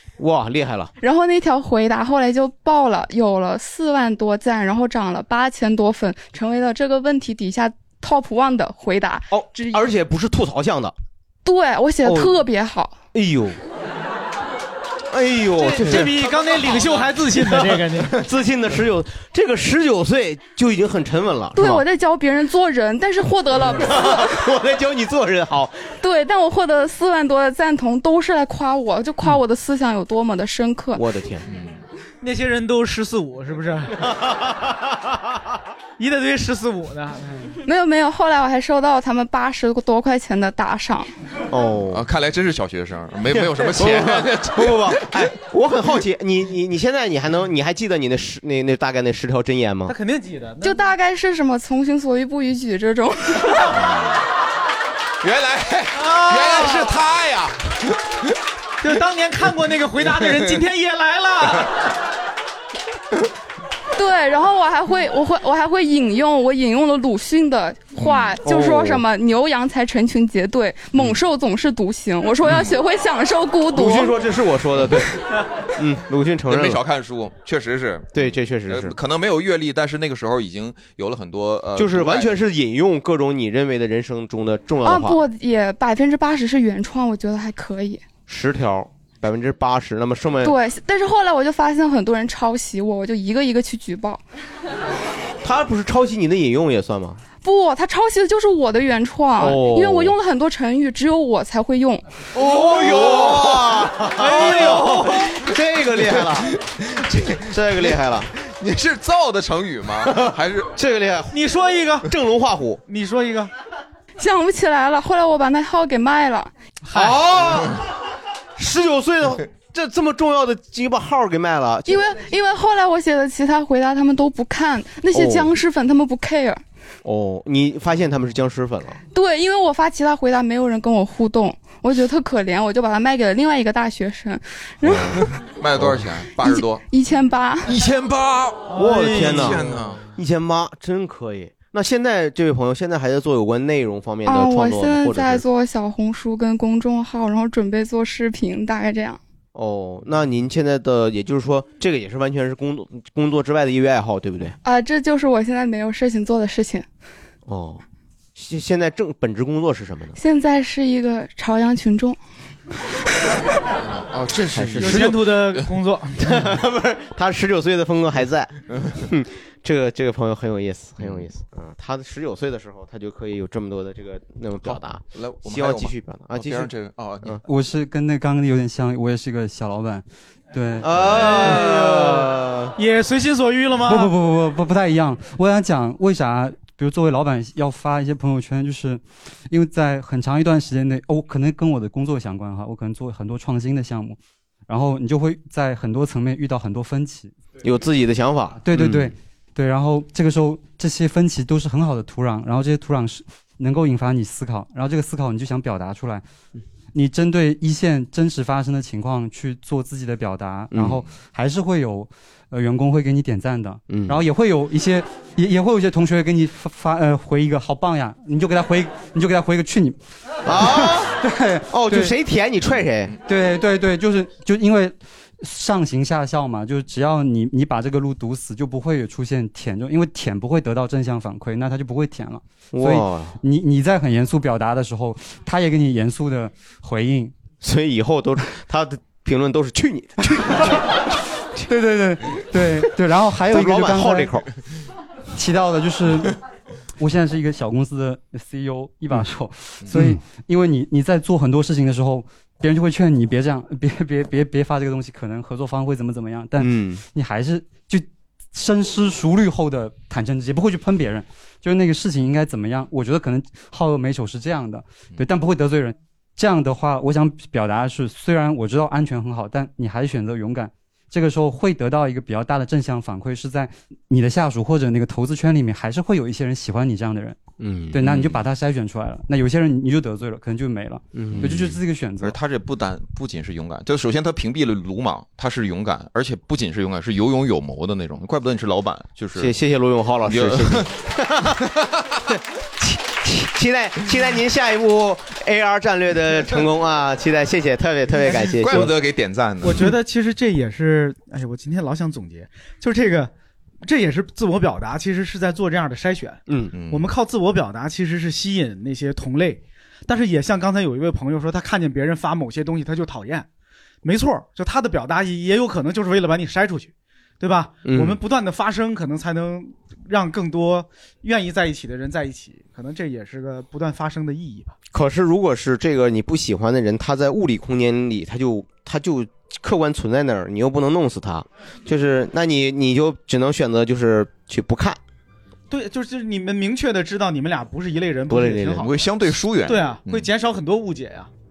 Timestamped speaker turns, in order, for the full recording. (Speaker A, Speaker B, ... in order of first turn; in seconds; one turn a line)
Speaker A: 0.2-0.9
Speaker B: 1.0-9.8
Speaker A: 9.3-10.9
Speaker B: 11.4-13.0
Speaker A: 12.0-12.4
Speaker A: 13.1-13.6
Speaker A: 15.1-16.3
Speaker C: 15.6-18.2
Speaker A: 17.4-21.8
Speaker B: 21.5-24.3
Speaker A: 23.7-25.9
Speaker B: 26.0-31.0
Speaker A: 30.9-31.5
Speaker D: 31.5-31.8
Speaker C: 32.2-34.1
Speaker C: 36.0-37.5
Speaker B: 37.6-41.1
Speaker A: 41.5-42.0
Speaker D: 41.9-45.1
Speaker A: 43.6-49.9
Speaker C: 49.9-50.8
Speaker B: 50.6-53.6
Speaker D: 53.8-54.2
Speaker D: 55.2-58.0
Speaker C: 56.0-56.9
Speaker C: 58.8-61.7
Speaker B: 63.9-74.2
Speaker D: 68.0-68.3
Speaker A: 68.4-69.0
Speaker A: 73.7-75.2
Speaker A: 75.8-76.8
Speaker D: 76.5-82.4
Speaker A: 78.1-79.0
Speaker A: 81.8-85.2
Speaker B: 84.8-88.0
Speaker A: 88.3-90.5
Speaker B: 90.4-94.2
Speaker A: 95.4-97.2
Speaker B: 97.4-102.1
Speaker A: 99.4-100.1
Speaker A: 102.3-106.5
Speaker D: 102.5-103.5
Speaker C: 104.2-105.2
Speaker D: 106.1-107.5
Speaker A: 107.4-108.3
Speaker D: 108.3-110.7
Speaker A: 110.0-111.4
Speaker C: 111.3-112.1
Speaker A: 112.0-112.8
Speaker C: 112.9-113.5
Speaker B: 114.2-116.5
Speaker C: 116.9-117.2
Speaker A: 116.9-117.8
Speaker A: 118.5-122.0
Speaker B: 121.9-126.6
Speaker A: 125.1-125.5
Speaker A: 127.0-129.0
Speaker B: 129.1-135.2
Speaker A: 134.8-135.2
Speaker D: 135.5-136.8
Speaker A: 135.8-136.0
Speaker B: 136.4-137.7
Speaker D: 137.7-140.1
Speaker C: 138.7-139.8
Speaker A: 138.7-145.4
Speaker B: 144.2-149.2
Speaker A: 149.5-154.6
Speaker B: 154.6-156.8
Speaker A: 157.4-157.8
Speaker A: 158.3-160.2
Speaker B: 160.2-162.2
Speaker D: 163.8-165.6
Speaker A: 164.5-165.1
Speaker C: 164.8-166.4
Speaker A: 166.3-176.7
Speaker D: 174.6-177.4
Speaker E: 177.4-180.9
Speaker A: 180.8-182.8
Speaker D: 181.0-181.3
Speaker C: 181.2-184.1
Speaker E: 183.9-194.2
Speaker E: 194.7-197.3
Speaker A: 197.6-199.1
Speaker E: 198.6-206.2
Speaker E: 206.9-222.2
Speaker A: 210.7-211.0
Speaker A: 213.9-214.2
Speaker A: 220.4-221.2
Speaker A: 221.7-223.1
Speaker E: 223.2-237.3
Speaker A: 232.7-233.3
Speaker A: 237.6-241.0
Speaker E: 241.7-244.4
Speaker A: 243.5-244.4
Speaker E: 245.3-246.3
Speaker E: 247.0-277.4
Speaker A: 256.6-257.0
Speaker A: 277.6-278.3
Speaker E: 277.9-282.4
Speaker A: 281.1-281.8
Speaker D: 281.3-289.5
Speaker A: 289.4-291.6
Speaker D: 290.3-290.9
Speaker A: 292.8-298.9
Speaker D: 298.3-299.9
Speaker C: 299.6-303.3
Speaker C: 303.8-313.5
Speaker A: 306.5-306.7
Speaker D: 306.7-307.1
Speaker C: 314.0-324.8
Speaker A: 317.8-318.2
Speaker A: 324.9-335.0
Speaker C: 335.7-338.9
Speaker A: 338.3-338.8
Speaker D: 338.8-340.3
Speaker C: 339.6-341.3